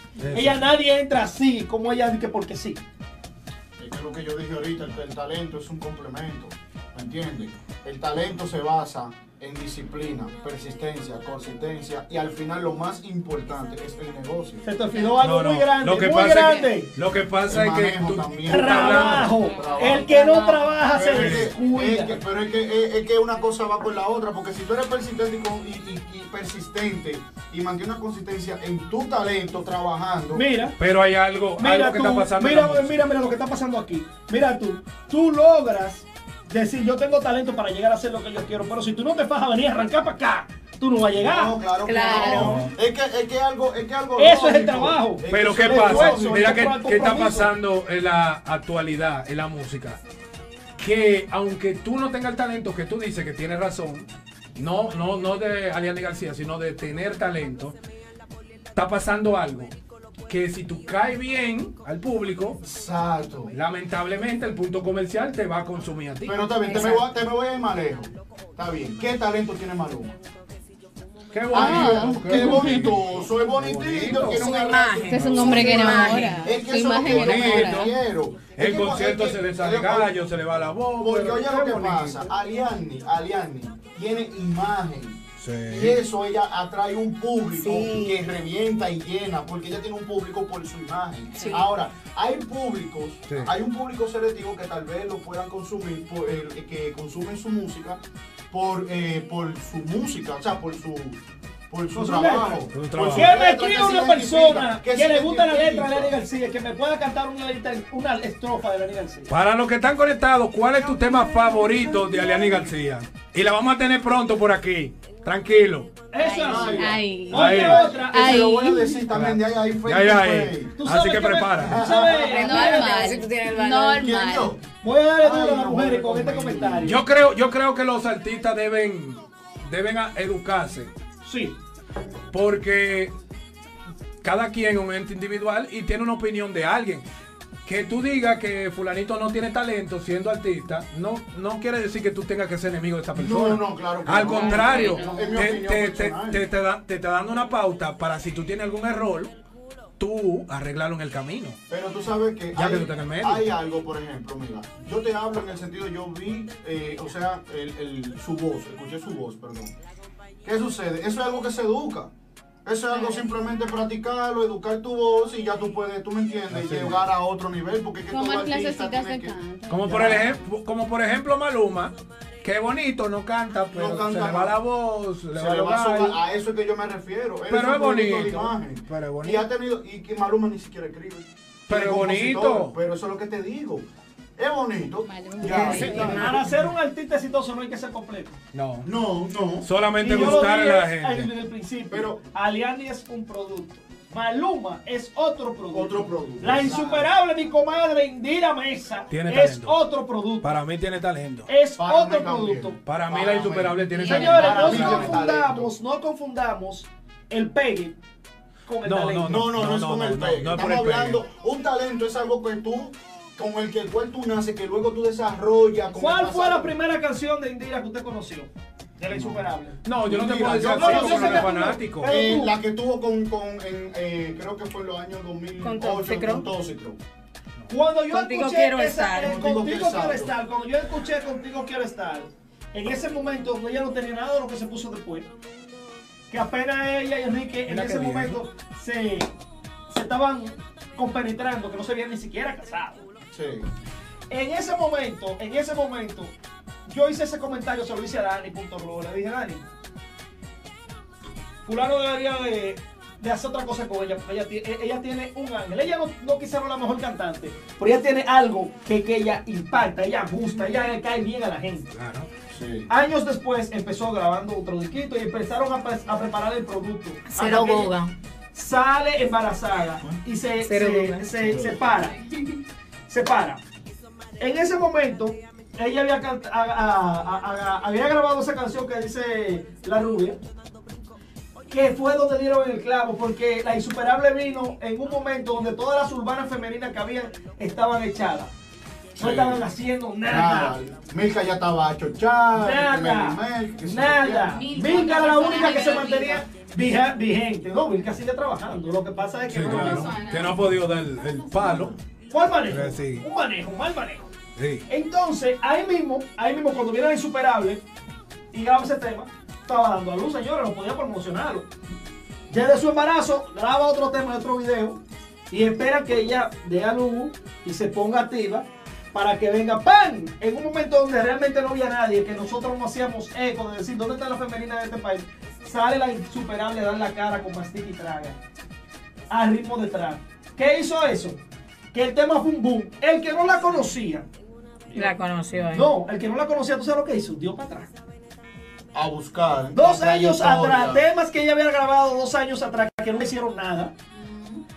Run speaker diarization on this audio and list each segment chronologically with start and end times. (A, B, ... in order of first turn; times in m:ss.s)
0:00.2-0:00.6 A
0:00.3-0:02.8 B
0:03.8-0:14.6 C
0:14.6-0:16.9 B
0:15.2-0:19.4 A
0:17.5-0:20.1 C
0:18.5-0:22.2 B
0:19.4-0:20.7 D
0:20.9-0:30.5 C
0:21.1-0:21.5 A
0:30.3-0:30.8 B
0:30.8-0:33.0 A
0:31.6-0:42.6 B
0:41.2-0:46.6 C
0:41.9-0:42.5 D
0:42.0-0:42.6 E
0:42.3-0:42.7 A
0:44.2-0:47.5 B
0:45.3-0:50.0 A
0:50.8-0:57.8 A
0:58.8-0:59.7 A
1:00.3-1:02.6 A
1:02.6-1:03.5 C
1:03.5-1:06.4 A
1:06.3-1:10.1 C
1:11.3-1:14.5 A
1:11.5-1:20.3 C
1:11.6-1:13.0 D
1:14.2-1:16.5 E
1:15.1-1:17.9 D
1:15.2-1:15.6 A
1:17.2-1:17.9 A
1:18.6-1:22.3 A
1:21.0-1:46.2 C
1:25.4-1:26.0 A
1:27.5-1:28.2 E
1:31.4-1:31.7 E
1:41.9-1:49.3 B
1:42.7-1:43.3 A
1:49.3-1:56.0 A
1:51.3-1:52.4 B
1:56.1-1:58.4 B
1:56.2-1:59.1 D
1:56.4-2:00.8 C
1:57.3-1:57.8 A
1:59.1-2:01.8 A
2:00.8-2:03.2 B
2:01.6-2:02.2 C
2:01.8-2:04.1 E
2:02.3-2:04.6 D
2:04.0-2:04.6 C
2:04.8-2:07.0 B
2:05.2-2:06.9 C
2:06.8-2:10.9 A
2:11.2-2:11.6 B
2:12.3-2:13.1 A
2:14.2-2:17.0 A
2:17.6-2:29.3 A
2:23.2-2:26.5 C
2:24.4-2:25.3 D
2:30.0-2:31.6 A
2:31.7-2:39.7 C
2:32.5-2:33.5 A
2:40.4-2:42.1 C
2:42.6-2:49.4 C
2:46.5-2:47.0 A
2:48.1-2:50.4 D
2:49.7-2:56.2 A
2:49.9-2:50.4 C
2:53.7-2:54.6 C
2:55.4-3:03.9 C
2:57.5-2:59.4 A
3:01.7-3:02.8 A
3:04.4-3:06.3 C
3:05.0-3:06.1 D
3:05.4-3:06.5 E
3:05.5-3:08.4 B
3:06.4-3:06.7 A
3:08.5-3:08.9 A
3:08.8-3:10.4 C
3:09.6-3:11.3 A
3:10.0-3:20.5 B
3:11.9-3:12.2 C
3:15.7-3:17.1 C
3:19.1-3:19.8 A
3:20.4-3:21.5 A
3:21.5-3:22.8 B
3:21.8-3:25.7 C
3:22.9-3:25.2 A
3:24.0-3:24.9 D
3:24.1-3:28.0 B
3:28.6-3:29.4 B
3:28.8-3:31.2 A
3:29.3-3:36.7 C
3:35.9-3:39.8 B
3:39.1-3:39.5 C
3:39.8-3:42.2 A
3:40.0-3:47.0 C
3:40.6-3:42.5 B
3:45.6-3:46.5 E
3:47.7-3:55.3 B
3:48.1-3:49.4 E
3:49.2-3:50.3 C
3:56.3-3:59.3 B
3:57.7-3:58.4 A
3:59.9-4:03.1 B
4:03.3-4:03.7 C
4:04.3-4:06.3 B
4:06.9-4:09.7 B
4:11.7-4:21.9 B
4:21.9-4:22.3 A
4:22.5-4:22.9 C
4:22.9-4:27.9 B
4:27.3-4:28.1 E
4:28.5-4:32.2 B
4:30.6-4:31.3 E
4:31.4-4:31.9 C
4:33.1-4:33.6 B
4:34.4-4:40.4 B
4:41.7-4:48.5 B
4:49.2-4:50.8 B
4:49.2-4:49.6 C
4:50.3-4:54.6 C
4:52.5-5:00.2 B
4:54.6-4:56.4 D
4:59.5-5:02.0 A
4:59.7-5:00.8 D
5:02.3-5:04.3 B
5:02.7-5:03.2 A
5:04.6-5:04.9 A
5:04.9-5:07.8 B
5:08.5-5:11.7 B
5:12.5-5:28.4 B
5:29.3-5:31.4 B
5:31.9-5:34.3 B
5:34.9-5:35.9 E
5:35.7-5:37.9 B
5:38.9-5:41.0 C
5:39.7-5:43.9 B
5:44.2-5:44.6 D